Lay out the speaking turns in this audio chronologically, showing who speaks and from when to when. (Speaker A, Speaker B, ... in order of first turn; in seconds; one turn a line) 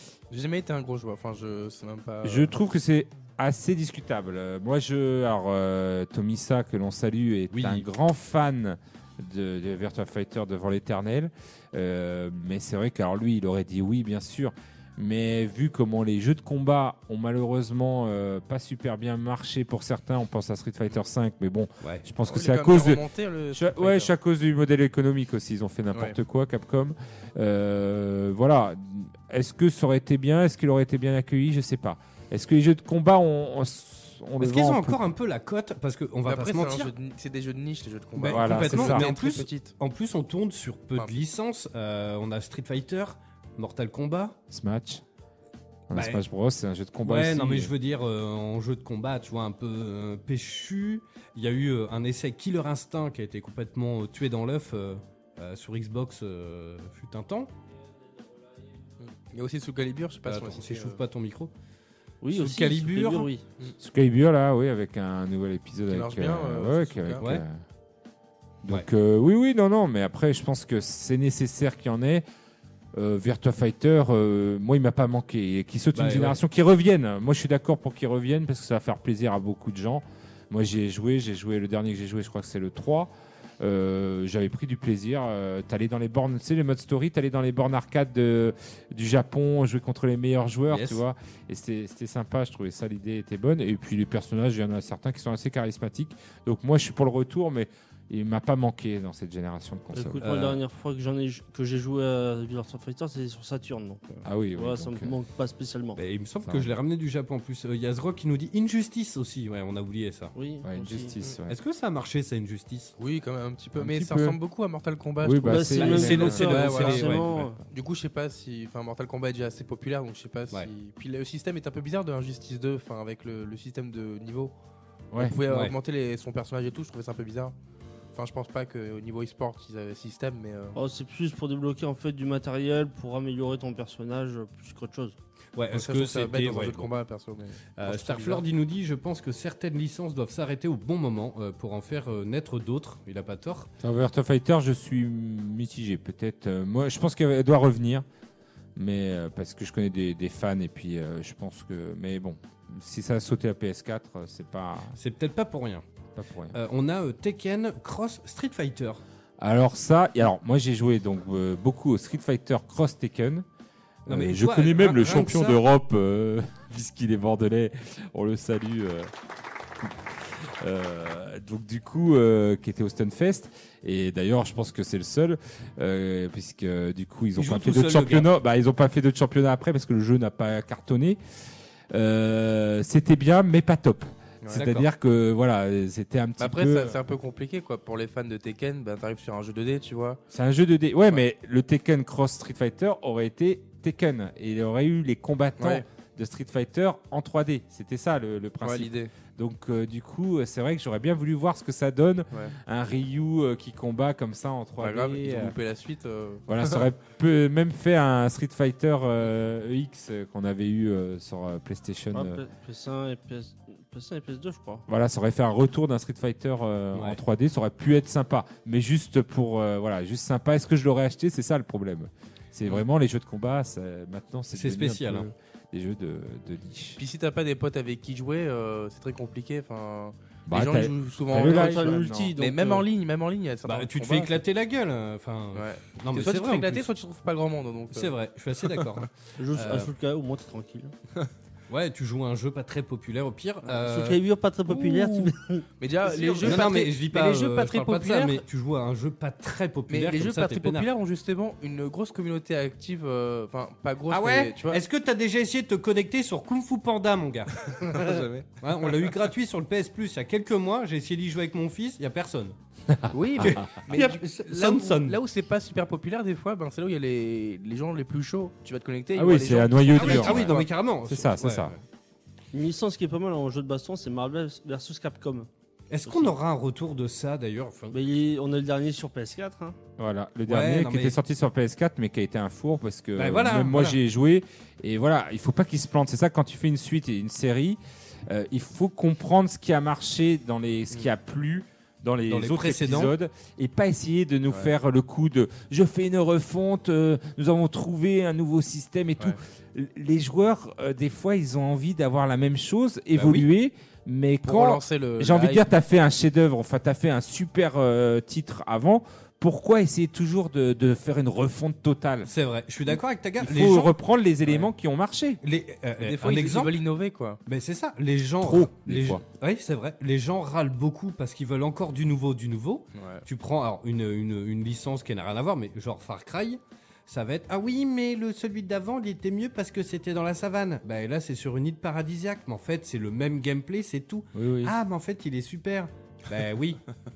Speaker A: 0.3-2.5
Speaker B: 2.2-35.1
Speaker C: 7.5-7.8
Speaker C: 21.8-22.1
Speaker A: 22.3-24.1
Speaker C: 34.4-36.9
Speaker A: 36.2-39.7
Speaker C: 38.2-44.4
Speaker B: 38.3-39.0
Speaker B: 44.5-45.0
Speaker B: 45.9-47.7
Speaker C: 45.9-46.2
Speaker C: 47.0-57.5
Speaker A: 59.0-61.0
Speaker C: 60.2-61.5
Speaker D: 62.2-63.4
Speaker C: 62.3-63.3
Speaker B: 63.8-67.5
Speaker A: 65.9-67.2
Speaker B: 68.6-72.2
Speaker B: 72.9-100.3
Speaker C: 75.9-76.4
Speaker C: 90.7-91.0
Speaker D: 99.9-106.0
Speaker C: 100.2-100.6
Speaker B: 104.2-105.2
Speaker C: 106.0-110.3
Speaker B: 106.4-106.7
Speaker D: 110.3-111.1
Speaker B: 110.6-111.5
Speaker C: 111.5-112.9
Speaker A: 113.0-117.2
Speaker B: 113.8-114.4
Speaker B: 115.2-117.6
Speaker D: 115.5-117.6
Speaker C: 115.8-117.2
Speaker A: 117.7-124.5
Speaker A: 125.2-127.5
Speaker C: 125.5-125.7
Speaker A: 128.1-130.8
Speaker D: 130.7-135.2
Speaker C: 135.6-136.9
Speaker A: 135.7-138.4
Speaker C: 137.8-143.7
Speaker B: 143.8-148.1
Speaker B: 148.8-154.9
Speaker C: 155.0-155.8
Speaker B: 156.2-156.6
Speaker C: 156.5-159.0
Speaker B: 159.4-163.4
Speaker B: 164.1-169.1
Speaker C: 164.1-165.6
Speaker B: 169.8-181.2
Speaker C: 177.3-178.3
Speaker B: 181.9-187.0
Speaker C: 184.5-184.9
Speaker A: 186.4-190.2
Speaker B: 190.3-205.5
Speaker A: 195.6-195.8
Speaker A: 198.6-199.1
Speaker A: 204.8-206.8
Speaker B: 206.5-212.4
Speaker D: 212.1-214.8
Speaker B: 214.9-227.0
Speaker C: 216.9-217.2
Speaker C: 224.5-225.3
Speaker A: 227.0-234.4
Speaker B: 230.5-232.3
Speaker D: 231.3-232.8
Speaker C: 233.6-236.9
Speaker A: 235.5-238.1
Speaker C: 237.9-239.9
Speaker A: 238.7-239.1
Speaker D: 239.4-240.9
Speaker C: 241.7-244.2
Speaker D: 243.8-245.6
Speaker A: 244.7-245.2
Speaker A: 245.8-248.4
Speaker D: 246.2-246.7
Speaker C: 246.4-250.9
Speaker A: 249.9-254.8
Speaker C: 254.1-262.6
Speaker A: 257.6-259.2
Speaker B: 262.9-263.7
Speaker A: 263.1-270.6
Speaker C: 263.4-265.2
Speaker B: 269.1-271.7
Speaker C: 269.9-271.8
Speaker D: 272.5-275.5
Speaker C: 275.9-277.9
Speaker D: 276.1-276.3
Speaker D: 277.9-279.8
Speaker B: 280.0-312.3
Speaker C: 280.5-281.2
Speaker C: 283.1-284.0
Speaker C: 292.3-293.1
Speaker C: 303.1-303.5
Speaker A: 304.4-305.7
Speaker C: 312.2-313.9
Speaker B: 312.9-315.4
Speaker C: 315.4-316.8
Speaker A: 316.0-317.4
Speaker C: 317.4-336.8
Speaker B: 318.4-319.2
Speaker A: 322.9-323.2
Speaker B: 334.3-334.8